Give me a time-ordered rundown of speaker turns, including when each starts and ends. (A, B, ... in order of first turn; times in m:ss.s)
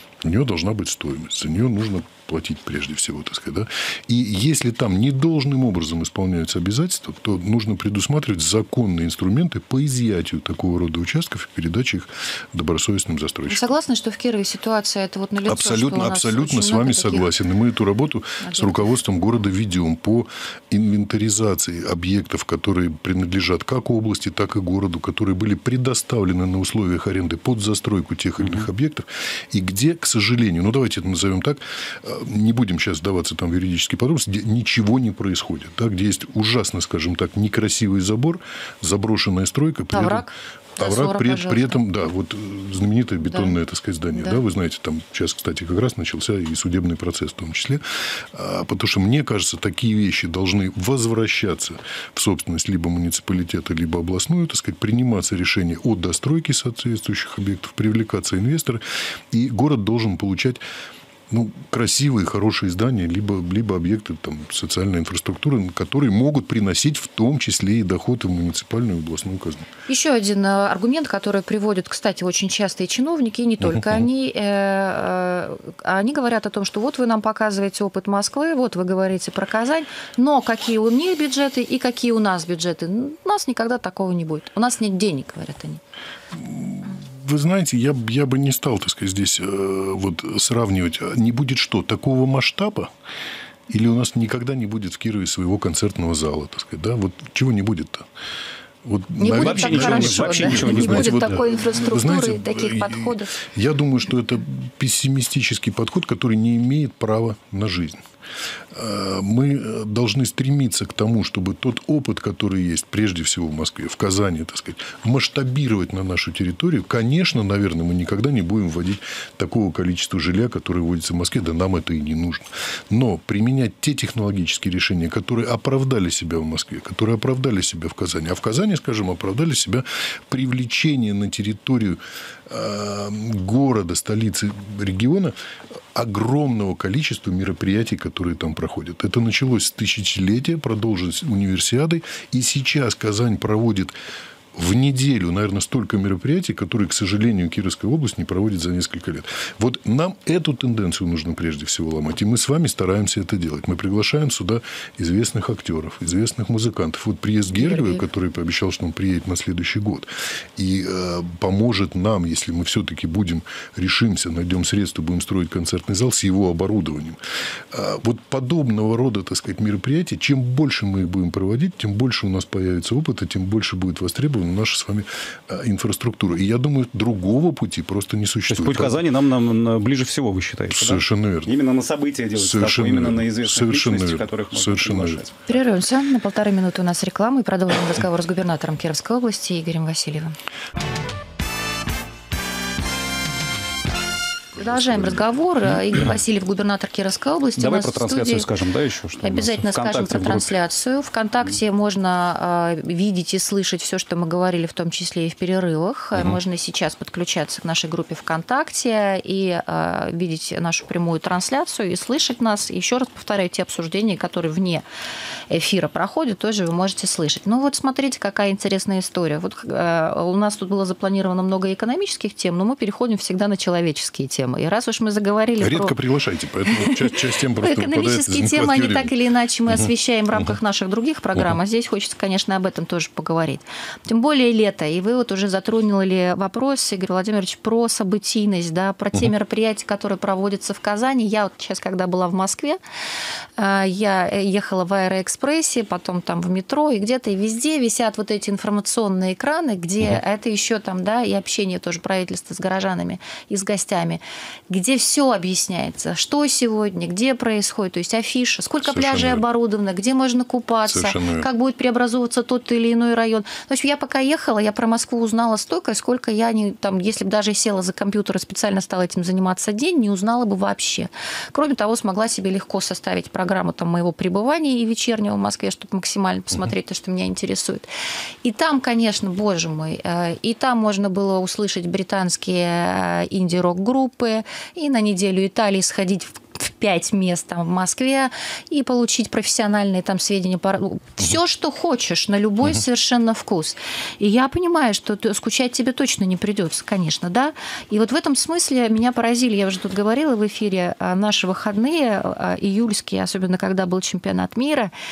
0:00.2-0:13.7 A
0:13.5-0:17.3 B
0:15.4-1:00.6 A
0:18.4-0:18.8 B
0:39.9-0:41.8 B
0:44.2-0:44.4 B
1:01.3-1:09.7 A
1:09.9-1:25.8 B
1:13.7-1:14.0 A
1:26.3-1:32.9 A
1:33.7-1:38.1 A
1:38.8-1:48.0 A
1:39.2-1:43.3 B
1:39.3-1:41.3 C
1:48.7-2:15.4 A
2:15.9-2:23.9 A
2:24.5-2:47.2 A
2:37.6-2:38.0 B
2:47.7-2:59.0 A
2:58.5-3:05.4 C
3:00.7-3:01.6 A
3:02.4-3:05.2 A
3:05.5-3:10.4 B
3:14.5-3:15.3 A
3:14.6-3:18.5 B
3:17.6-3:20.5 C
3:19.2-3:34.8 B
3:35.5-3:46.0 B
3:45.6-3:49.1 A
3:46.7-4:02.8 B
3:49.7-3:50.5 A
4:03.6-4:37.9 B
4:18.8-4:19.4 A
4:20.9-4:21.5 A
4:38.4-5:04.9 B